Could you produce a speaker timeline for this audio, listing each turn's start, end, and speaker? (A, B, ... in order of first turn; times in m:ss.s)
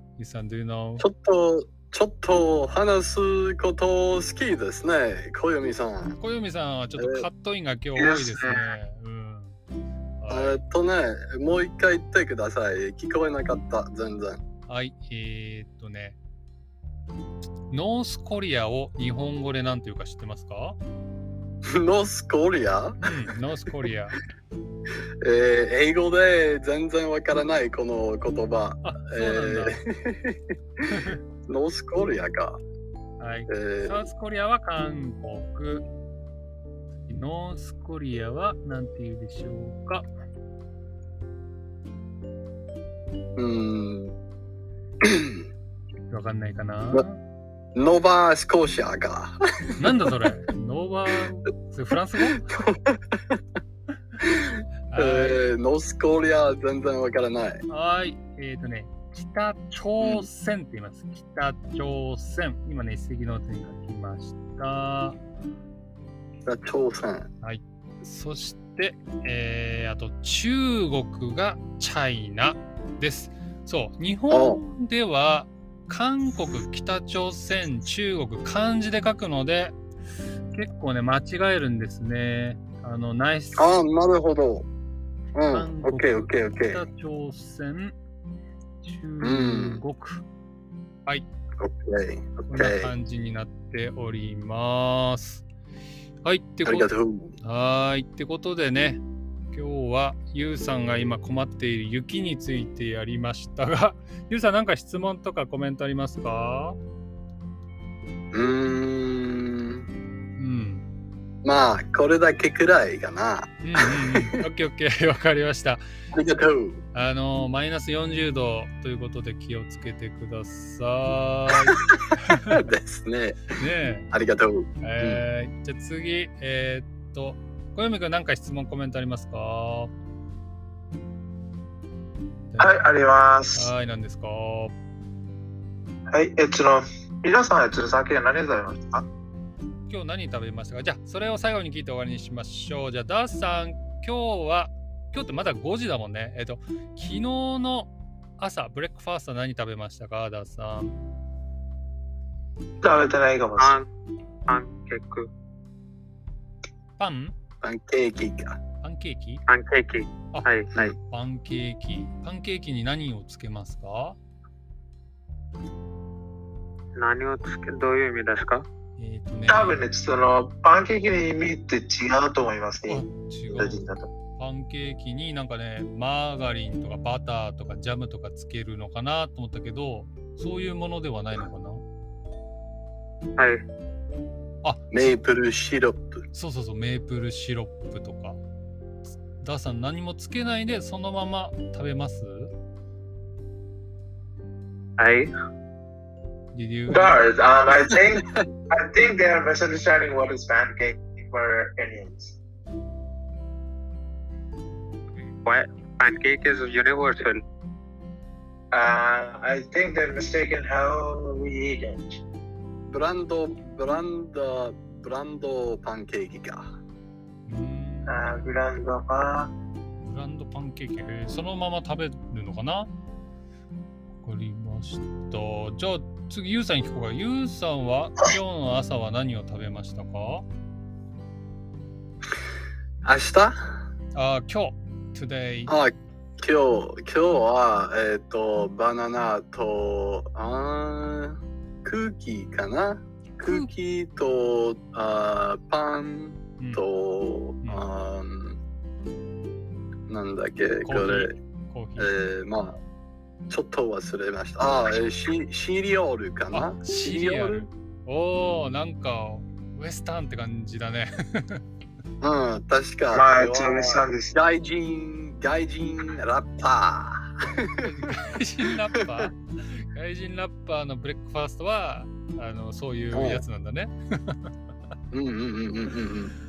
0:00.2-0:01.1 A
0:01.0-0:06.2 B
0:06.2-0:09.6 A
0:07.0-0:07.3 B
0:08.0-0:08.8 C
0:10.2-0:10.6 A
0:10.3-0:14.4 B
0:14.7-0:16.2 A
0:17.7-0:20.8 A
0:21.6-0:23.1 B
0:23.0-0:24.2 A
0:25.2-0:30.4 B
0:28.8-0:29.8 A
0:30.9-0:31.2 A
0:31.5-0:32.6 B
0:33.2-0:35.9 A
0:33.5-0:34.1 B
0:37.1-0:40.1 A
0:43.4-0:44.2 B
0:45.0-0:45.4 B
0:46.1-0:47.2 A
0:47.8-0:49.8 B
0:49.8-0:52.6 A
0:52.5-0:53.4 B
0:54.2-0:57.6 B
0:54.9-0:55.4 A
0:57.7-1:05.2 A
1:00.0-1:00.3 B
1:06.4-1:07.3 B
1:07.4-1:19.8 A
1:14.3-1:14.6 B
1:20.5-1:23.8 A
1:23.6-1:24.7 B
1:25.4-1:26.8 B
1:25.5-1:28.0 A
1:28.8-1:30.2 A
1:29.2-1:29.8 B
1:31.6-1:32.9 B
1:32.5-1:35.4 A
1:36.2-1:46.8 A
1:36.6-1:37.4 B
1:48.3-1:49.9 B
1:50.4-1:50.9 A
1:51.4-1:54.4 B
1:53.6-1:55.8 A
1:56.1-1:56.8 B
1:56.9-2:02.6 A
2:01.7-2:03.6 B
2:03.6-2:04.1 A
2:04.1-2:05.2 B
2:04.8-2:09.9 A
2:12.5-2:12.8 A
2:12.6-2:13.7 C
2:13.5-2:14.8 A
2:16.1-2:19.1 C
2:19.9-2:31.0 A
2:32.8-2:33.8 C
2:33.6-2:33.9 D
2:34.5-2:35.3 D
2:37.0-2:37.3 A
2:37.6-2:38.6 B
2:38.8-2:39.4 A
2:39.5-2:41.0 D
2:40.3-2:44.2 A
2:47.0-2:48.7 D
2:49.0-2:49.8 A
2:49.5-2:54.1 C
2:52.9-3:01.8 A
3:03.4-3:03.6 D
3:04.6-3:05.1 A
3:04.9-3:06.2 B
3:06.3-3:08.4 A
3:09.1-3:12.5 A
3:15.0-3:15.3 D
3:16.5-3:17.2 A
3:16.9-3:22.4 C
3:25.4-3:27.4 D
3:28.7-3:32.2 C
3:32.9-3:36.7 B
3:37.5-3:38.4 A
3:38.1-3:39.5 C
3:40.0-3:42.9 A
3:44.2-3:50.5 A
3:53.0-3:53.8 B
3:54.2-3:55.7 A
3:55.7-4:08.6 B
4:03.4-4:03.7 A
4:06.6-4:06.8 A
4:07.6-4:07.9 A
4:10.1-4:11.4 B
4:10.8-4:12.1 A
4:12.0-4:12.8 B
4:13.5-4:17.7 B
4:16.5-4:21.6 A
4:22.2-4:27.9 B
4:23.1-4:24.4 C
4:27.8-4:34.5 A
4:33.1-4:33.4 B
4:35.1-4:36.3 B